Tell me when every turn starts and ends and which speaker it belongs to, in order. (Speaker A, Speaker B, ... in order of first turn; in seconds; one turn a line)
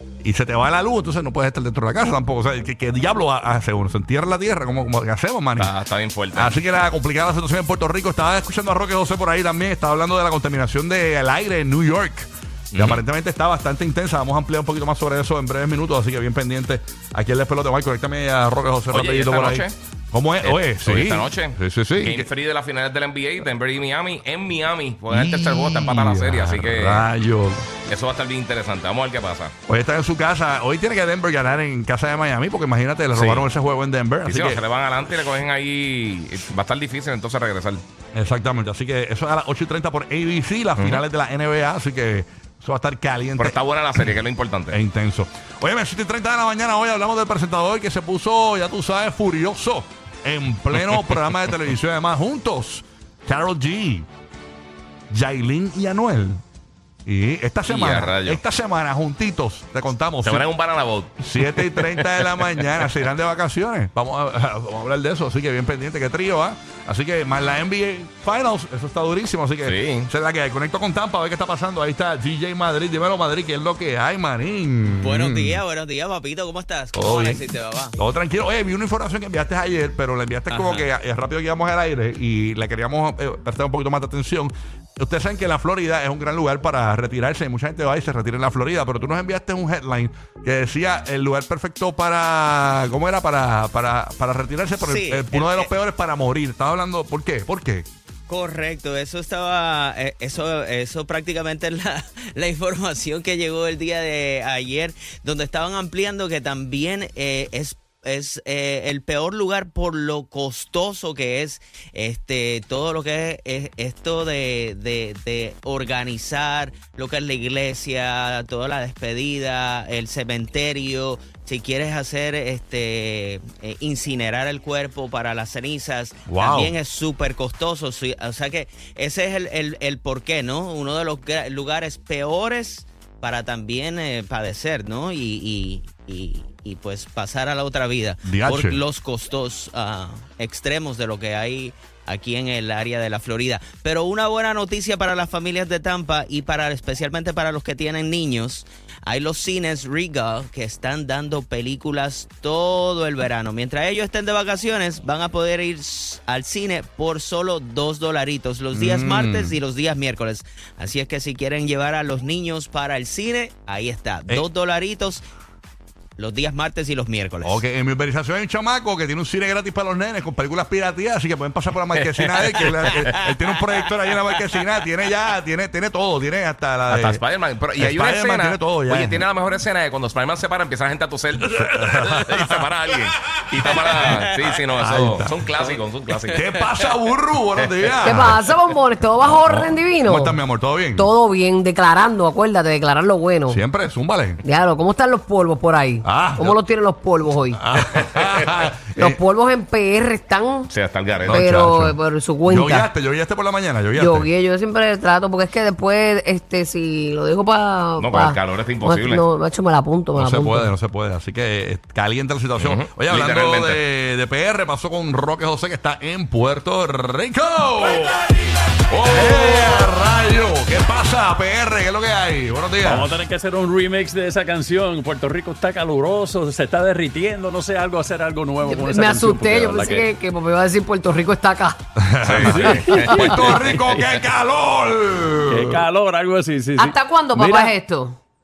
Speaker A: 0.2-5.7
Speaker B: 5.6-6.6
Speaker A: 6.3-22.3
Speaker B: 12.7-13.0
Speaker B: 18.9-19.7
Speaker B: 20.4-27.1
Speaker A: 25.1-27.7
Speaker B: 27.9-29.5
Speaker A: 29.7-34.6
Speaker B: 33.1-33.5
Speaker B: 34.2-37.8
Speaker A: 38.1-43.6
Speaker B: 40.8-41.0
Speaker B: 43.4-44.8
Speaker A: 44.7-54.0
Speaker A: 55.1-56.4
Speaker A: 57.0-60.5
Speaker B: 57.7-58.4
Speaker B: 60.2-62.7
Speaker A: 61.2-75.6
Speaker B: 69.6-70.1
Speaker C: 75.0-78.0
Speaker A: 76.9-77.4
Speaker A: 78.0-97.8
Speaker C: 94.8-95.7
Speaker C: 98.3-165.2
Speaker A: 126.3-126.7
Speaker A: 138.2-138.8
Speaker A: 158.7-159.6
Speaker C: 166.2-167.6
Speaker A: 167.4-177.2
Speaker B: 172.2-173.2
Speaker B: 176.9-186.9
Speaker A: 177.8-179.2
Speaker A: 181.4-182.6
Speaker A: 183.3-185.4
Speaker A: 186.3-188.4
Speaker B: 187.6-188.1
Speaker D: 188.0-190.4
Speaker A: 189.2-191.1
Speaker D: 190.9-193.6
Speaker A: 193.5-194.4
Speaker D: 194.4-197.6
Speaker A: 196.0-196.6
Speaker A: 197.6-199.2
Speaker D: 198.9-200.7
Speaker B: 200.7-201.4
Speaker A: 201.2-204.3
Speaker D: 201.2-202.9
Speaker D: 203.9-210.7
Speaker B: 208.0-209.2
Speaker A: 210.2-223.1
Speaker B: 212.6-213.8
Speaker B: 218.9-219.8
Speaker E: 222.8-230.1
Speaker D: 228.6-231.8
Speaker A: 232.0-235.8
Speaker B: 232.2-233.7
Speaker D: 232.5-233.3
Speaker E: 233.3-234.1
Speaker E: 235.5-237.7
Speaker D: 236.8-238.2